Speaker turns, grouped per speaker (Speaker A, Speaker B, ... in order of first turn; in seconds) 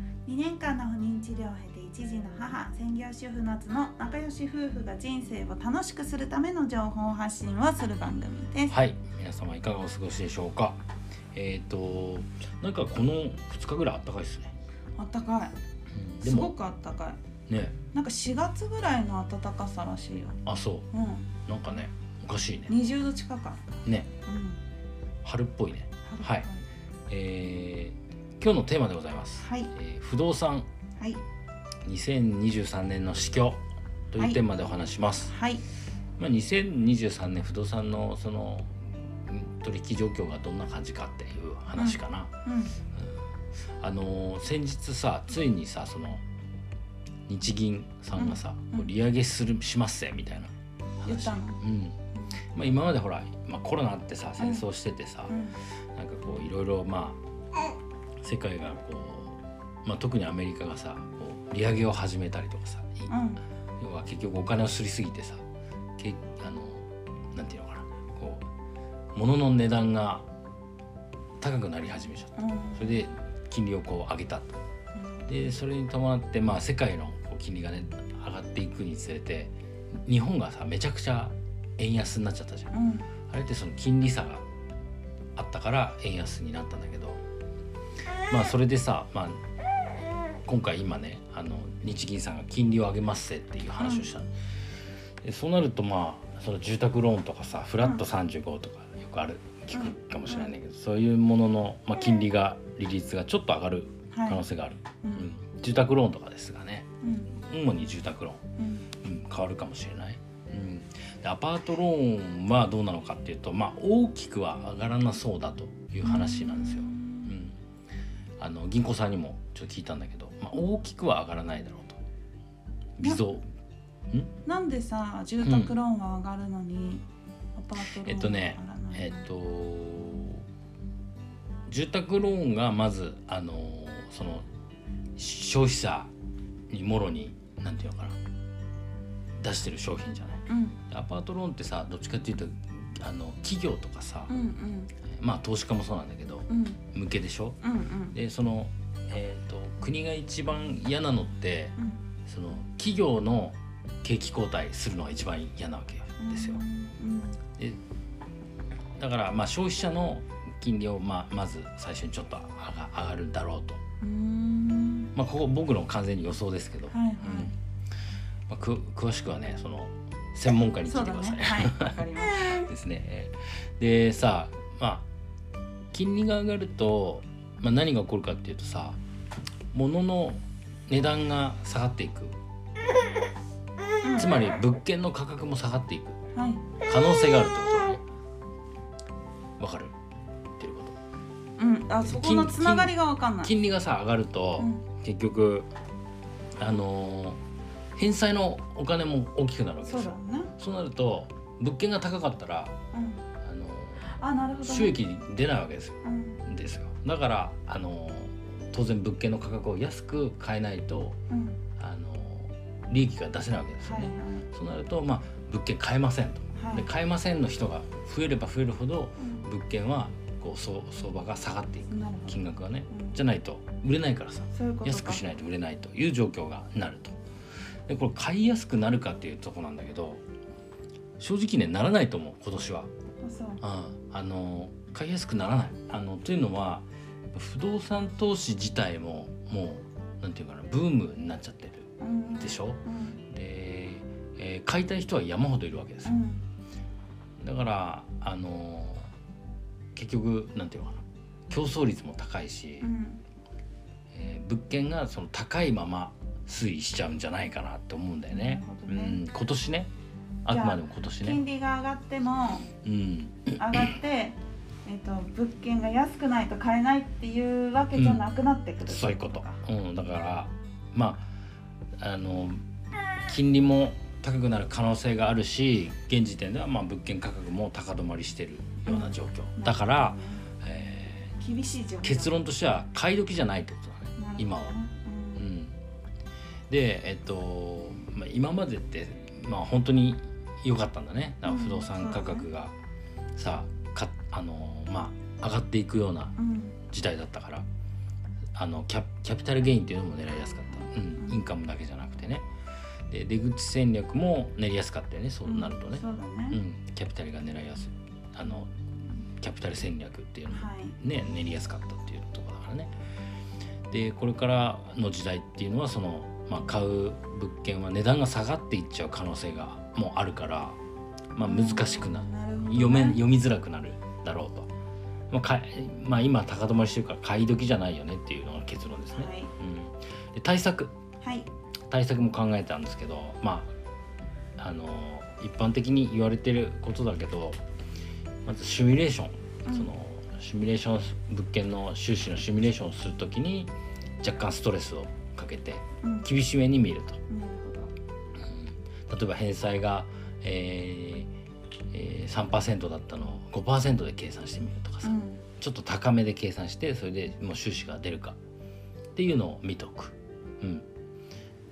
Speaker A: 0.2-8.7, 15.0-15.5, 16.2-17.2, 17.9-20.4, 20.9-21.3, 22.7-24.6, 26.0-26.6, 29.4-29.7, 34.2-34.4, 35.3-35.6, 41.8-42.7, 48.1-48.9, 51.0-51.6, 54.4-54.6, 55.3-55.6, 63.1-63.4, 72.4-73.0, 75.0-75.2, 82.7-83.1, 93.8-94.0, 99.7-100.5, 104.1-104.4, 105.0-105.3, 107.0-107.3, 108.6-108.9, 116.0-117.3, 124.4-127.0, 127.5-129.2, 140.5-140.8, 144.3-144.9, 146.5-146.8, 147.6-148.1, 156.2-157.4, 164.0-165.1, 166.9-167.5, 170.8-172.6, 184.0-184.4, 186.3-186.7, 191.6-193.5, 194.6-194.8, 199.8-200.5, 202.9-203.2, 204.0-204.9, 206.0-206.4, 211.3-211.6, 213.8-214.4, 216.5-216.9, 221.9-222.4, 222.9-223.2, 224.5-225.2, 233.2-233.6, 242.0-243.2, 246.0-246.4, 252.8-253.2, 258.3-259.2, 260.5-262.7, 263.6-269.6, 278.8-280.4, 281.4-282.3, 284.2-285.4, 291.4-292.4, 296.4-296.8, 301.2-301.4, 305.4-306.6, 310.5-311.0, 321.4-323.2, 329.1-329.5, 331.2-331.5, 346.0-346.3, 347.3-347.9, 355.0-355.4
Speaker B: 8.7-10.8, 11.3-14.5, 15.9-16.5, 17.5-17.8, 20.4-20.9, 21.4-22.7, 23.8-24.1, 25.2-26.5, 27.1-30.7, 31.8-33.6, 34.1-35.3, 36.2-42.3, 43.8-46.2, 47.3-50.5, 51.0-52.0, 52.5-55.4, 55.9-57.2, 58.2-63.1, 63.8-65.4, 66.0-68.4, 69.1-70.2, 71.4-74.6, 75.3-79.5, 80.0-82.7, 83.3-84.4, 85.3-87.2, 88.3-89.4, 90.5-94.3, 95.2-108.4, 109.0-117.6, 118.4-122.0, 123.0-123.5, 125.4-125.8, 127.9-130.4, 131.7-134.4, 135.2-136.1, 136.7-138.2, 139.4-144.3, 145.1-147.6, 148.1-156.6, 159.0-163.8, 165.1-167.5, 168.5-175.1, 175.9-179.0, 179.7-182.4, 184.2-186.2, 186.8-188.0, 189.6-189.9, 190.6-190.9, 192.0-195.7, 196.6-197.4, 197.9-202.7, 203.4-204.1, 204.6-211.2, 211.8-227.2, 227.9-230.2, 231.2-232.9, 233.6-246.2, 247.4-249.1, 249.9-252.9, 254.1-259.9, 260.4-261.4, 262.8-264.0, 267.9-268.2, 268.8-271.3, 272.0-272.6, 273.2-281.4, 282.0-284.7, 285.4-285.7, 286.7-292.7, 293.3-296.4, 296.9-297.6, 298.5-302.4, 303.1-308.7, 309.4-312.9, 313.9-320.8, 321.3-324.7, 325.3-330.9, 331.9-333.7, 334.6-337.6, 338.4-347.2, 348.4-351.3, 351.9-358.4, 359.1-360.9